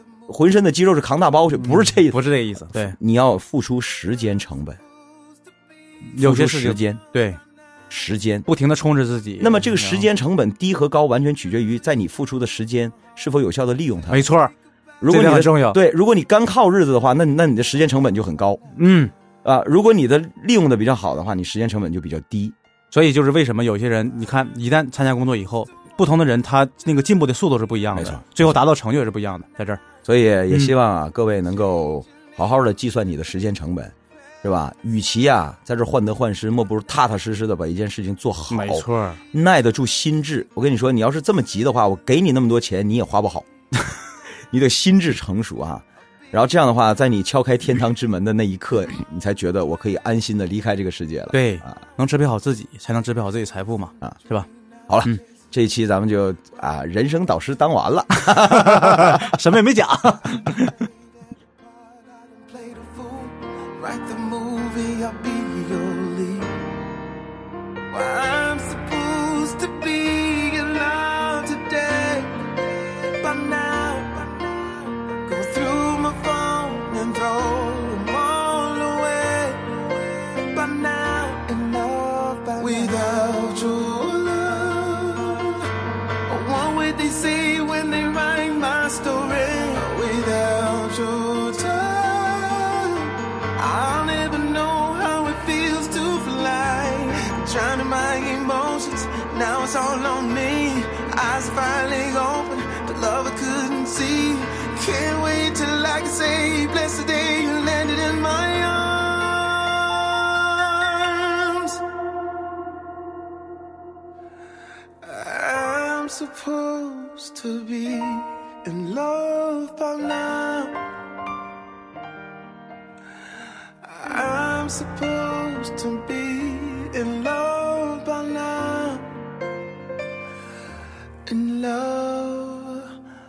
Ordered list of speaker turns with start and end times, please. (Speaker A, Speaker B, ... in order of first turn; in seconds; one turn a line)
Speaker A: 0.3-4.8
Speaker B: 1.6-3.0
Speaker B: 6.1-7.4
Speaker A: 6.2-7.0
Speaker A: 7.9-8.5
Speaker B: 8.5-10.1
Speaker A: 9.4-14.3
Speaker B: 14.1-14.5
Speaker A: 15.0-18.6
Speaker B: 15.1-15.8
Speaker B: 18.8-19.1
Speaker A: 19.4-22.6
Speaker B: 22.9-29.8
Speaker A: 27.9-28.4
Speaker A: 30.0-43.5
Speaker B: 38.5-39.2
Speaker A: 44.5-51.8
Speaker B: 51.3-54.5
Speaker A: 54.9-59.4
Speaker B: 58.3-60.9
Speaker C: 62.5-66.7
Speaker C: 67.9-72.5
Speaker C: 73.2-85.7
Speaker C: 86.3-111.8
Speaker C: 115.0-120.8
Speaker C: 123.8-129.2
Speaker C: 131.3-132.9